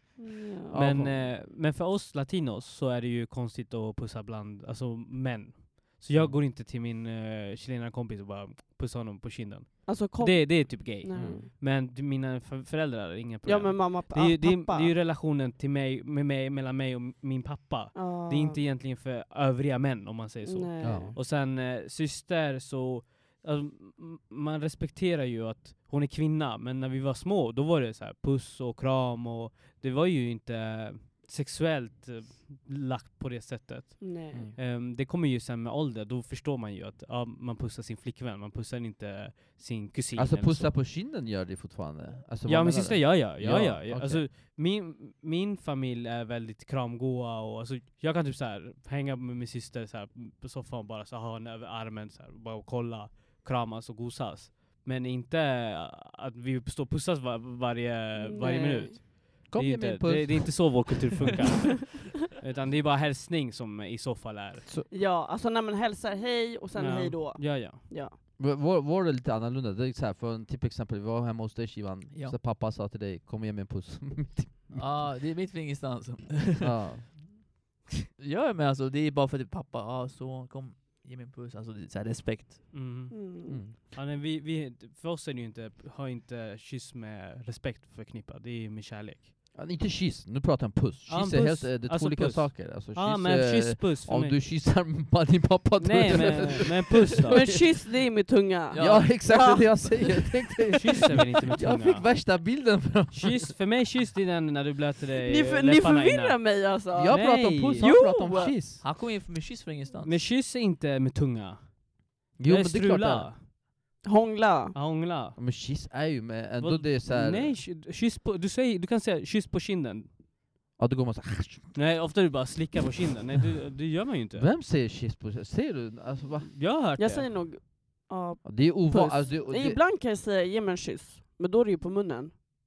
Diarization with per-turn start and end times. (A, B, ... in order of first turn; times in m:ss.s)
0:00.2-0:00.8 A
0:00.7-0:01.3 B
0:00.7-0:40.8 C
0:06.1-0:06.4 B
0:09.9-0:11.5 A
0:11.2-0:11.5 B
0:13.4-0:14.9 A
0:17.9-0:18.6 A
0:20.4-0:21.2 A
0:20.8-0:21.2 B
0:34.0-0:34.5 A
0:34.3-0:34.6 B
0:40.2-0:44.3 B
0:42.4-1:04.6 C
0:58.2-0:59.0 A
0:59.5-1:01.3 B
1:04.9-1:08.2 A
1:06.8-1:07.9 C
1:08.4-1:15.1 B
1:12.1-1:12.4 D
1:14.7-1:16.7 D
1:16.6-1:17.4 B
1:18.2-1:22.8 D
1:22.7-1:29.3 C
1:23.1-1:23.6 A
1:23.5-1:23.8 B
1:29.5-1:37.7 B
1:31.1-1:34.4 C
1:35.8-1:37.6 C
1:37.3-1:40.8 A
1:38.7-1:39.1 D
1:38.8-1:43.5 B
1:40.8-1:42.3 C
1:43.1-1:47.8 C
1:45.2-1:48.5 A
1:46.9-1:48.8 B
1:47.8-1:50.2 D
1:50.0-1:53.5 C
1:52.4-1:53.3 B
1:54.0-1:54.8 A
1:54.8-1:55.4 C
1:55.4-1:57.6 B
1:56.6-2:00.1 C
2:00.8-2:01.7 B
2:01.7-2:04.5 C
2:04.4-2:06.5 B
2:06.4-2:07.3 C
2:07.0-2:12.3 A
2:08.4-2:09.8 B